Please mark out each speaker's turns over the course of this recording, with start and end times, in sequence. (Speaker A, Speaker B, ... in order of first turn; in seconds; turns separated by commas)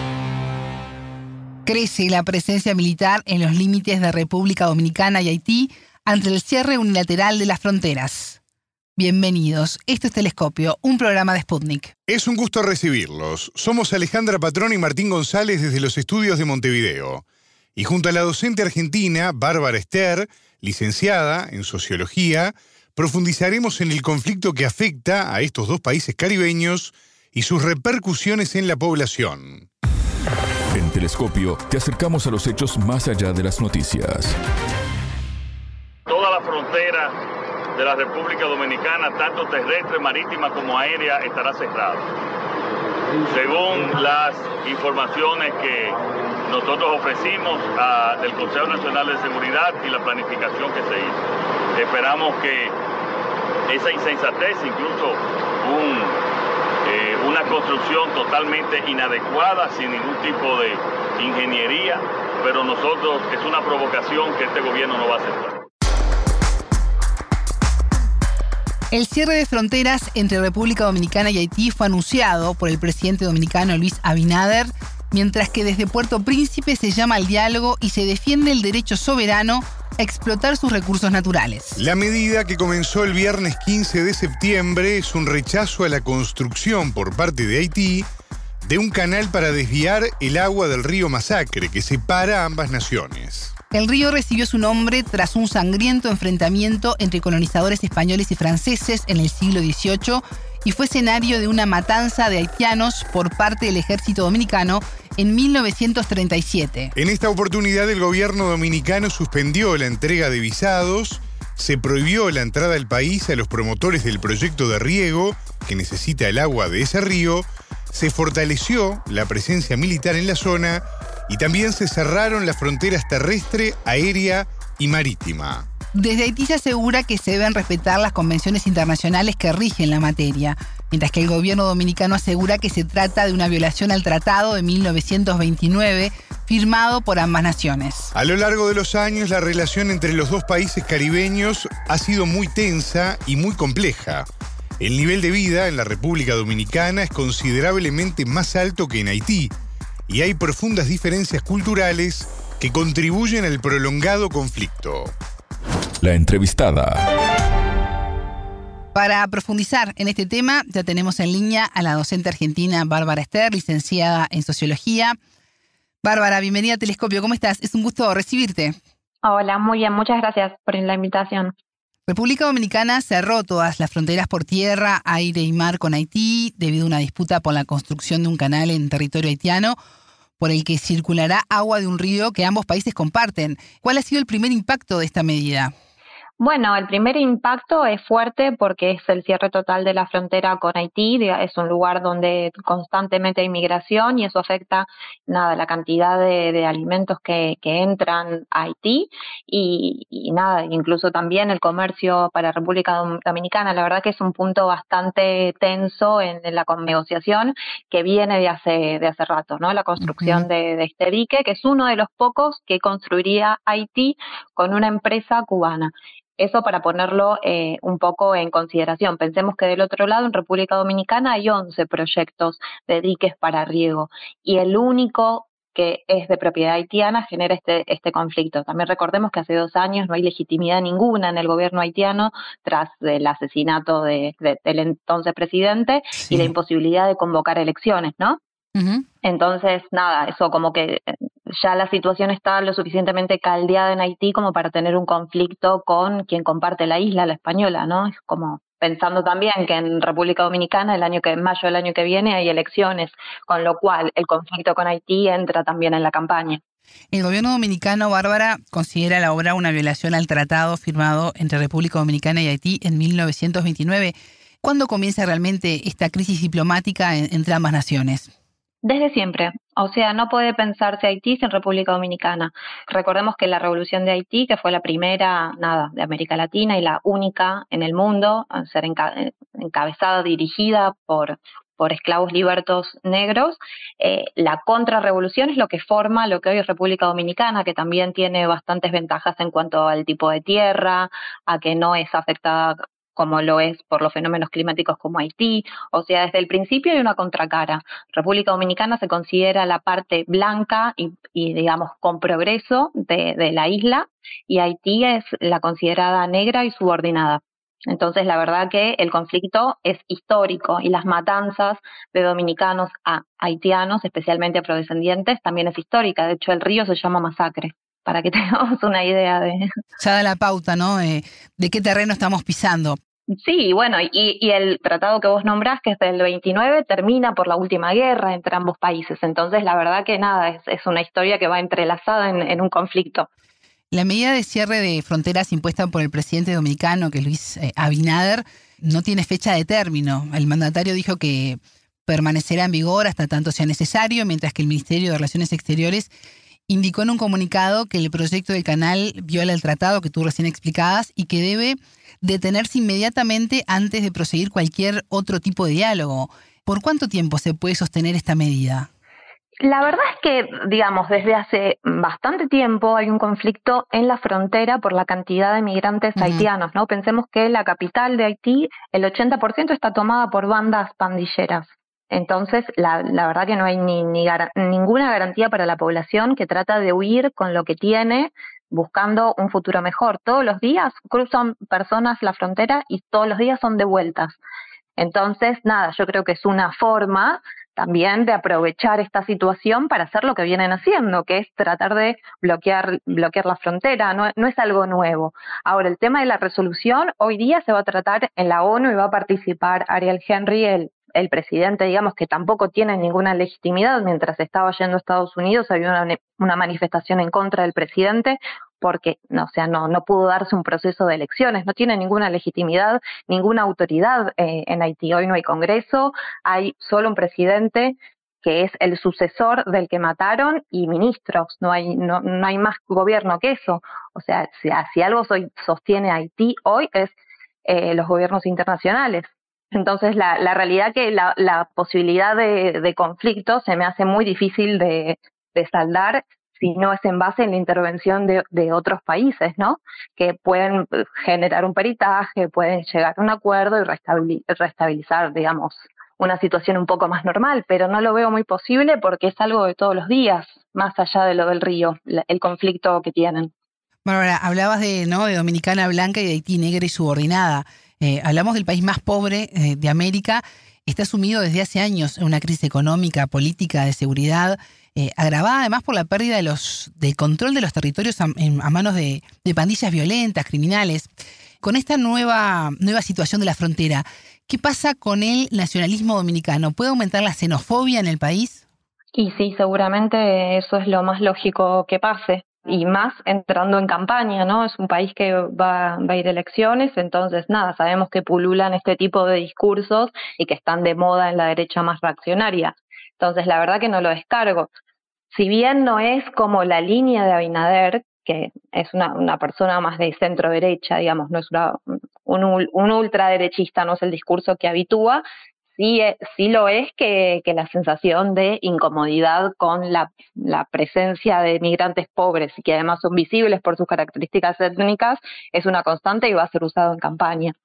Speaker A: 1.7-8.4, Speaker A: 9.0-11.9, Speaker B: 12.1-17.2, Speaker B: 17.8-29.7, Speaker C: 30.7-34.4, Speaker D: 36.1-37.1, Speaker D: 37.8-42.0, Speaker D: 43.2-51.2, Speaker D: 51.8-52.7, Speaker D: 53.7-56.2, Speaker D: 56.9-65.6, Speaker A: 68.9-81.8, Speaker B: 81.8-88.1, Speaker B: 88.6-93.5, Speaker A: 93.7-106.9, Speaker B: 107.0-125.7, Speaker A: 125.9-138.1, Speaker B: 138.2-144.3, Speaker B: 144.8-149.5, Speaker B: 150.1-155.1, Speaker C: 156.0-157.0, Speaker A: 158.9-165.2, Speaker A: 166.0-168.8, Speaker E: 169.2-171.5, Speaker A: 172.1-179.8, Speaker A: 180.4-185.7, Speaker E: 186.4-238.4, Speaker A: 210.0-210.5, Speaker A: 236.2-236.5, Speaker A: 238.8-239.1, Speaker E: 239.2-256.6, Speaker A: 257.1-268.3, Speaker E: 268.8-319.7, Speaker A: 320.0-323.0, Speaker E: 323.4-333.3, Speaker A: 333.9-346.1, Speaker A: 346.7-358.9, Speaker E: 359.6-384.4, Speaker A: 366.2-366.5, Speaker E: 385.0-453.5, Speaker A: 454.1-471.1, Speaker A: 471.6-478.6, Speaker E: 479.1-494.7, Speaker E: 495.3-517.5